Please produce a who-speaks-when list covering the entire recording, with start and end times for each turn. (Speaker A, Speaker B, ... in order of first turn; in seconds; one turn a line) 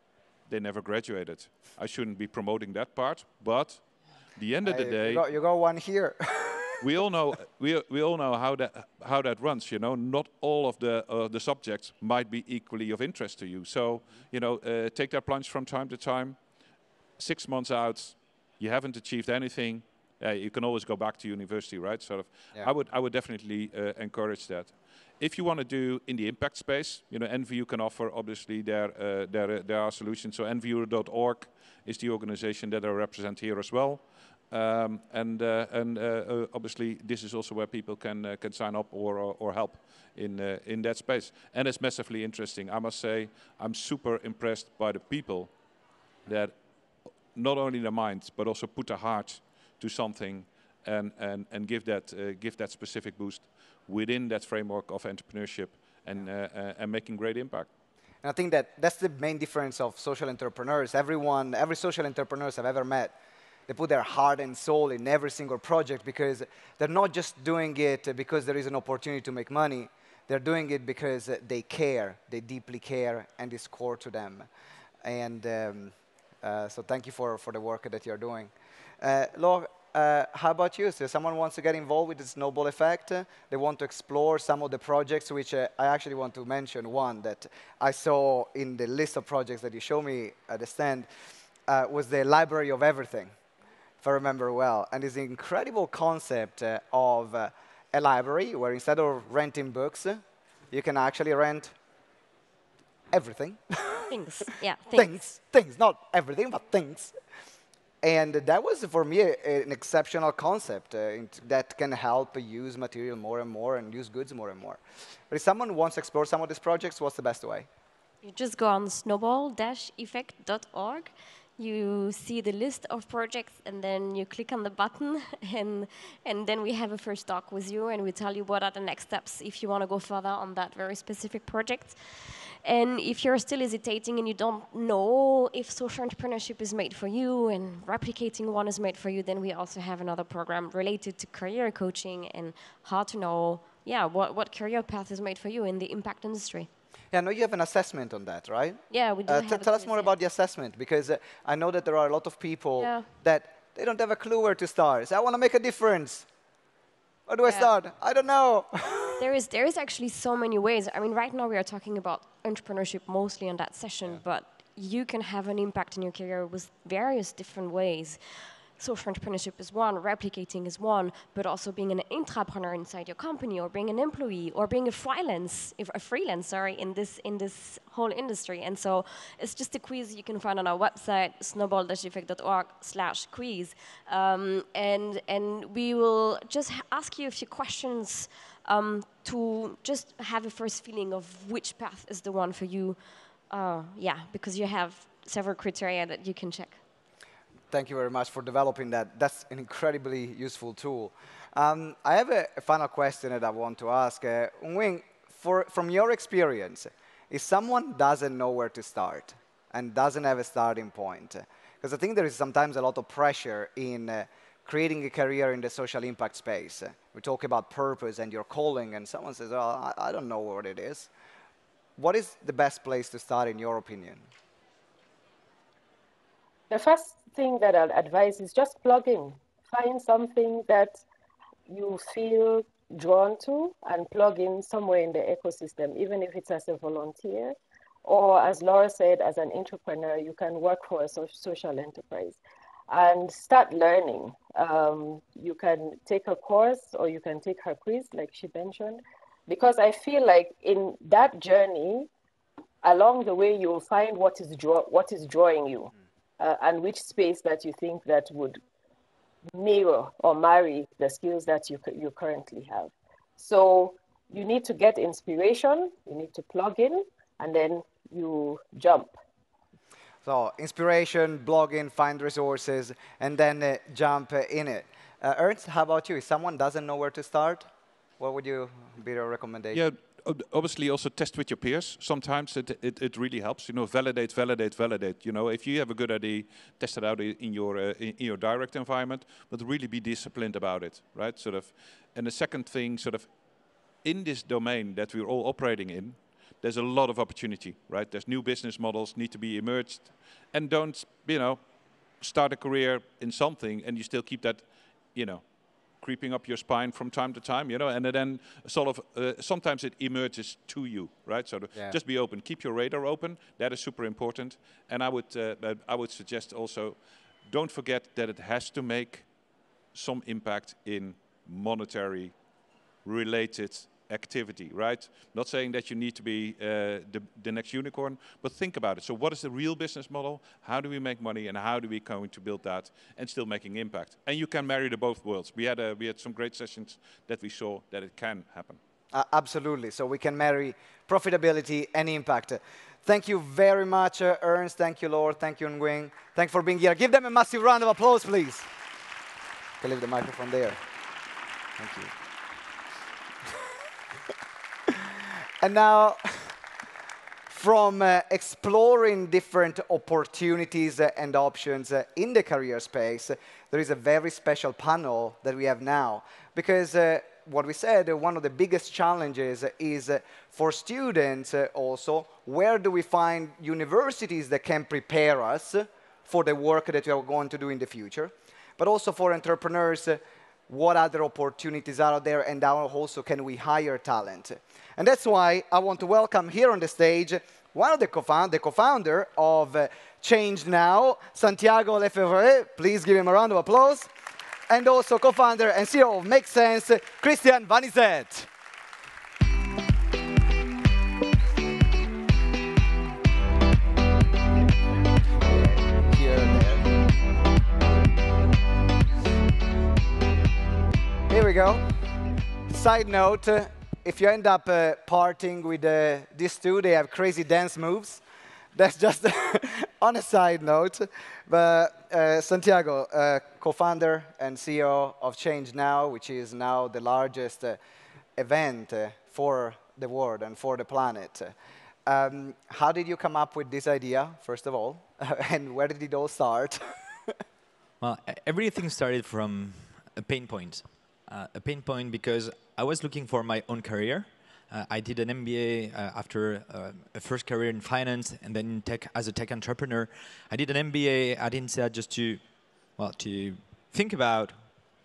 Speaker A: 0.5-5.2
Speaker B: 4.6-6.8
Speaker A: 6.8-16.4
Speaker A: 17.2-45.5
Speaker A: 46.2-46.6
Speaker A: 47.3-57.7
Speaker B: 58.2-63.1
Speaker B: 63.7-74.5
Speaker B: 75.0-91.1
Speaker B: 91.7-93.3
Speaker B: 94.0-101.7
Speaker B: 103.1-104.1
Speaker C: 104.1-105.2
Speaker B: 104.9-107.1
Speaker B: 108.0-117.7
Speaker C: 118.2-146.7
Speaker B: 147.1-156.2
Speaker C: 148.9-150.1
Speaker C: 152.8-153.1
Speaker B: 157.3-159.2
Speaker C: 157.4-157.7
Speaker C: 159.2-196.8
Speaker B: 197.7-221.1
Speaker B: 222.0-224.2
Speaker D: 226.7-231.0
Speaker D: 231.7-242.4
Speaker D: 242.9-252.1
Speaker D: 252.8-258.6
Speaker D: 259.5-269.1
Speaker B: 270.2-277.7
Speaker B: 278.2-279.8
Speaker A: 279.7-293.3
Speaker A: 294.0-301.7
Speaker A: 302.2-319.3
Speaker A: 319.9-322.4
Speaker A: 323.0-338.8
Speaker B: 339.1-348.7
Speaker B: 349.8-350.8
Speaker B: 351.8-352.1
Speaker B: 355.6-356.5
Speaker B: 357.5-394.1
Speaker B: 394.7-398.5
Speaker B: 405.3-406.9
Speaker B: 411.3-411.9
Speaker B: 412.7-418.2
Speaker B: 418.7-427.8
Speaker B: 428.4-431.5
Speaker B: 432.1-437.3
Speaker E: 438.0-452.4
Speaker E: 453.0-454.6